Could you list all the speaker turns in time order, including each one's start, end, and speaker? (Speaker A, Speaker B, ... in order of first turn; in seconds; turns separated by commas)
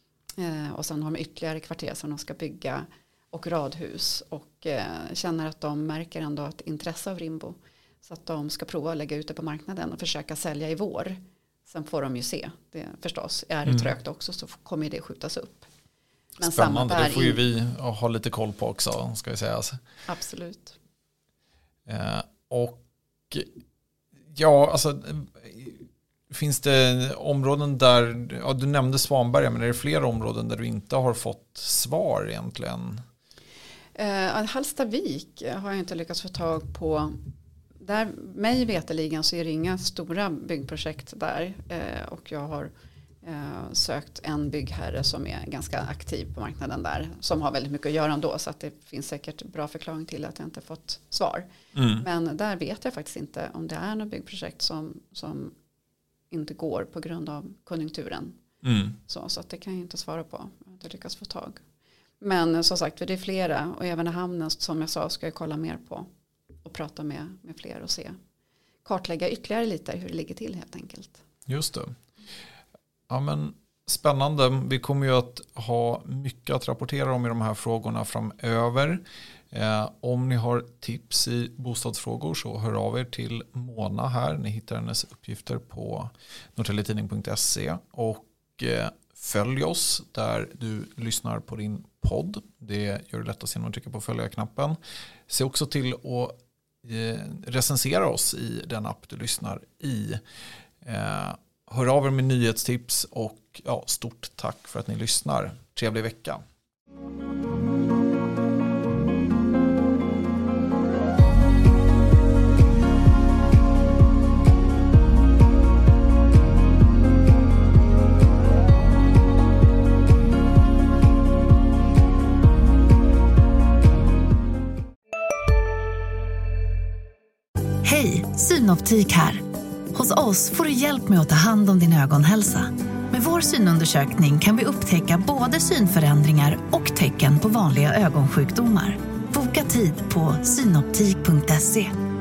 Speaker A: 0.4-15.7, Speaker B: 13.7-13.9, Speaker A: 16.4-17.4, Speaker B: 16.4-19.8, Speaker A: 20.1-20.8, Speaker B: 21.9-23.5, Speaker B: 24.3-33.0, Speaker A: 34.0-37.1, Speaker A: 37.8-42.7, Speaker A: 43.2-51.5, Speaker B: 51.7-52.0, Speaker A: 52.0-55.5, Speaker A: 56.3-58.4, Speaker B: 58.6-59.0, Speaker A: 59.1-61.6, Speaker A: 62.2-66.1, Speaker A: 66.6-68.1, Speaker A: 68.8-71.2, Speaker B: 71.5-71.9, Speaker B: 73.1-79.0, Speaker B: 79.5-94.8, Speaker B: 95.3-100.2, Speaker B: 100.8-106.4, Speaker C: 127.8-129.4, Speaker C: 129.9-141.9